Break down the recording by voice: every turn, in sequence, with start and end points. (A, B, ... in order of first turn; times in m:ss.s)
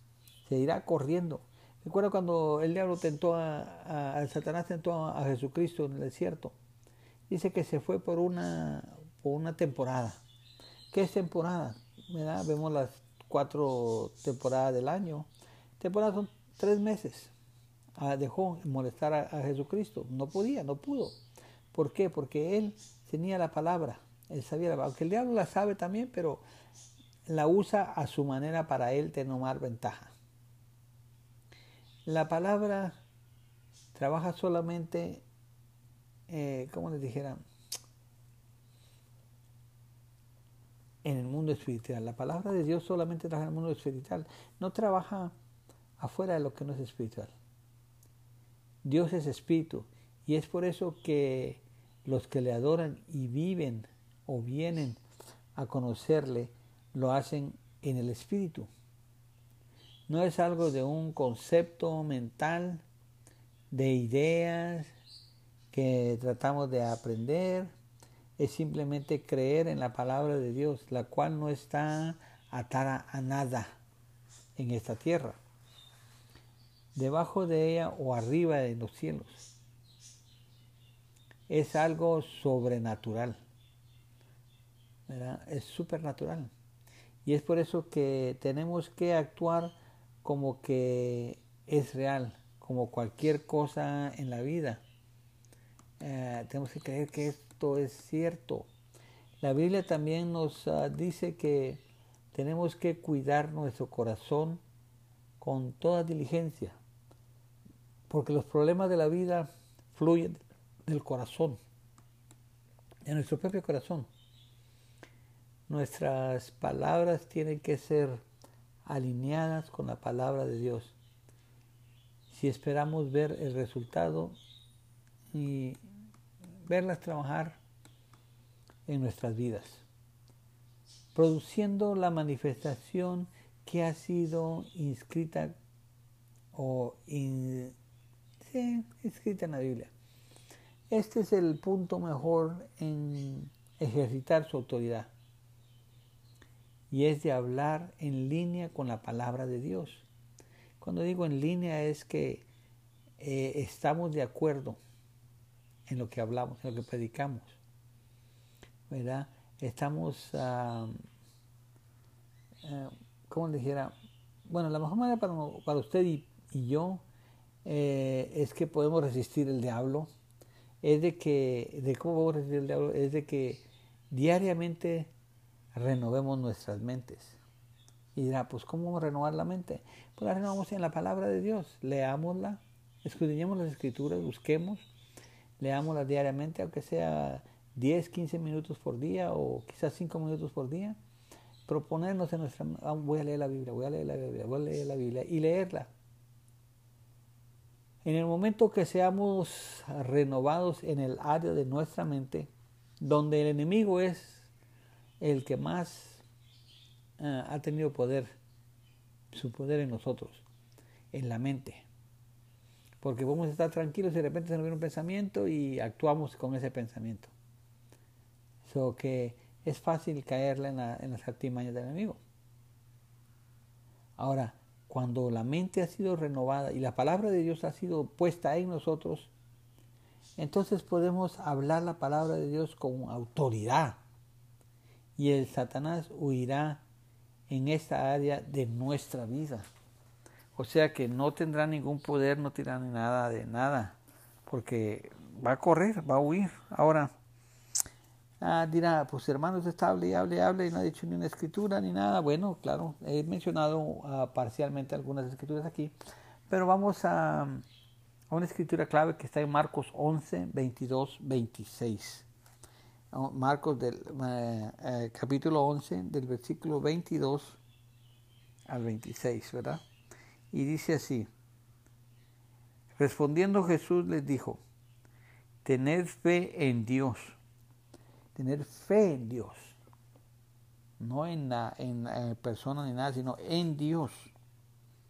0:00.4-0:06.5 A
0:07.3-0:10.2 A
0:10.9-0:15.3 A
0:15.8-0:17.3 A
0:18.0-0:21.2 A
0:21.7-0:26.4 A
0:27.3-0:30.1 A
0:32.0-0:33.0 A
0:33.9-0:35.2 A
0:36.3-0:37.4 A
0:41.0-0:45.3 A
0:46.0-0:47.3 A
0:48.8-0:55.0 A
0:55.6-0:58.7 A
1:00.1-1:02.8 A
1:03.7-1:04.9 A
1:05.7-1:07.7 A
1:08.4-1:13.7 A
1:14.6-1:15.4 A
1:16.9-1:19.5 A
1:21.5-1:23.4 A
1:25.1-1:26.5 A
1:27.2-1:34.8 A
1:36.0-1:38.7 A
1:39.4-1:41.8 A
1:42.3-1:44.6 A
1:45.4-1:46.8 A
1:48.1-1:51.6 A
1:53.0-1:54.1 A
1:55.7-1:58.2 A
1:58.8-2:00.9 A
2:02.3-2:04.4 A
2:05.3-2:05.8 A
2:06.6-2:07.6 A
2:08.9-2:09.8 A
2:11.1-2:15.5 A
2:16.5-2:17.7 A
2:18.4-2:19.9 A
2:20.9-2:25.1 A
2:26.9-2:30.0 A
2:30.8-2:32.4 A
2:33.2-2:34.8 A
2:35.9-2:37.6 A
2:38.9-2:40.9 A
2:42.6-2:43.9 A
2:44.5-2:47.0 A
2:47.6-2:50.1 A
2:50.8-2:55.1 A
2:55.7-2:57.4 A
2:58.1-3:04.8 A
3:05.6-3:11.0 A
3:11.7-3:15.9 A
3:18.0-3:22.5 A
3:23.0-3:24.5 A
3:25.2-3:26.2 A
3:27.2-3:28.4 A
3:29.3-3:30.4 A
3:31.1-3:31.8 A
3:33.0-3:37.3 A
3:38.6-3:42.2 A
3:44.2-3:49.3 A
3:50.4-3:54.0 A
3:55.2-3:56.8 A
3:57.5-3:59.7 A
4:00.5-4:04.0 A
4:04.5-4:07.1 A
4:08.4-4:15.9 A
4:16.5-4:17.6 A
4:18.3-4:22.3 A
4:23.1-4:27.6 A
4:28.7-4:29.8 A
4:30.5-4:31.3 A
4:33.0-4:34.6 A
4:35.6-4:37.4 A
4:38.3-4:39.8 A
4:41.0-4:44.3 A